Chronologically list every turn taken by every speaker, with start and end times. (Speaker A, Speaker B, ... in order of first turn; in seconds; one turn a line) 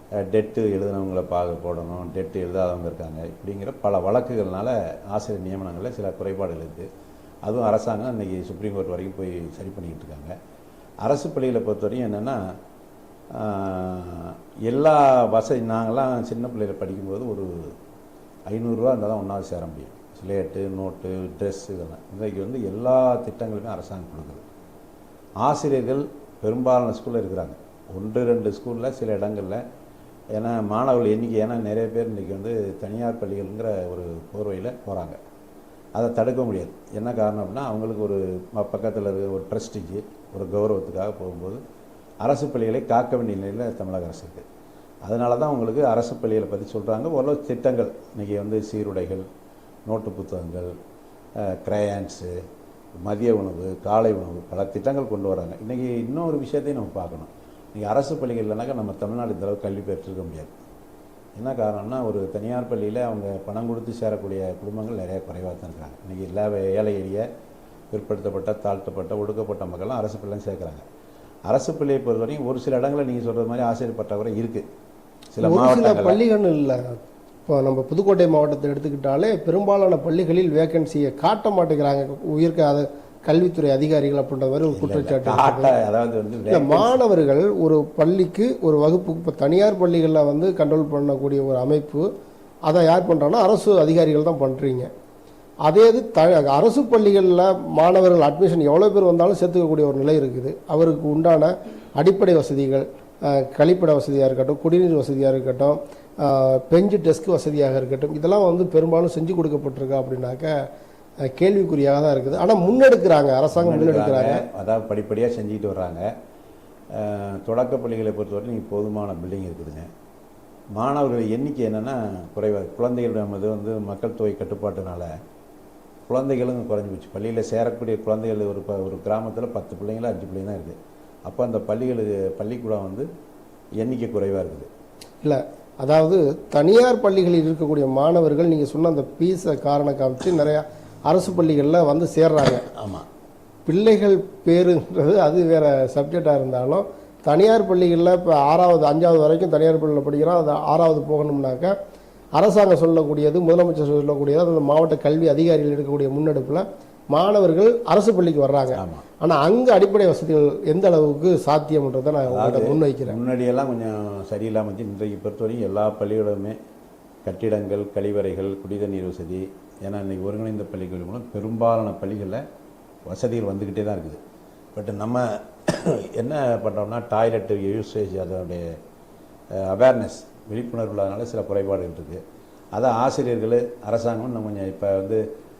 Speaker A: 0.2-6.9
Speaker A: 7.4-10.3
Speaker A: 11.0-12.5
Speaker A: 13.3-17.7
Speaker A: 18.5-24.4
Speaker A: 25.4-29.6
Speaker A: 30.4-35.2
Speaker A: 36.0-41.6
Speaker A: 42.2-44.5
Speaker A: 45.0-49.2
Speaker A: 49.9-50.7
Speaker A: 51.4-52.3
Speaker A: 53.0-60.6
Speaker A: 61.4-67.2
Speaker A: 67.9-70.8
Speaker A: 71.5-74.6
Speaker A: 75.3-76.2
Speaker B: 75.4-77.0
Speaker B: 77.5-85.7
Speaker A: 84.7-87.0
Speaker B: 86.5-92.1
Speaker B: 92.7-94.9
Speaker B: 95.7-110.5
Speaker B: 111.2-114.4
Speaker A: 113.5-116.1
Speaker A: 116.9-119.9
Speaker A: 120.8-125.1
Speaker A: 126.1-133.1
Speaker A: 133.8-134.7
Speaker B: 135.2-142.7
Speaker A: 142.7-143.1
Speaker B: 143.7-151.7
Speaker B: 152.4-163.2
Speaker A: 158.7-159.1
Speaker A: 162.3-166.6
Speaker A: 167.2-172.4
Speaker A: 173.1-174.2
Speaker A: 174.7-178.7
Speaker A: 179.5-182.2
Speaker A: 182.7-185.2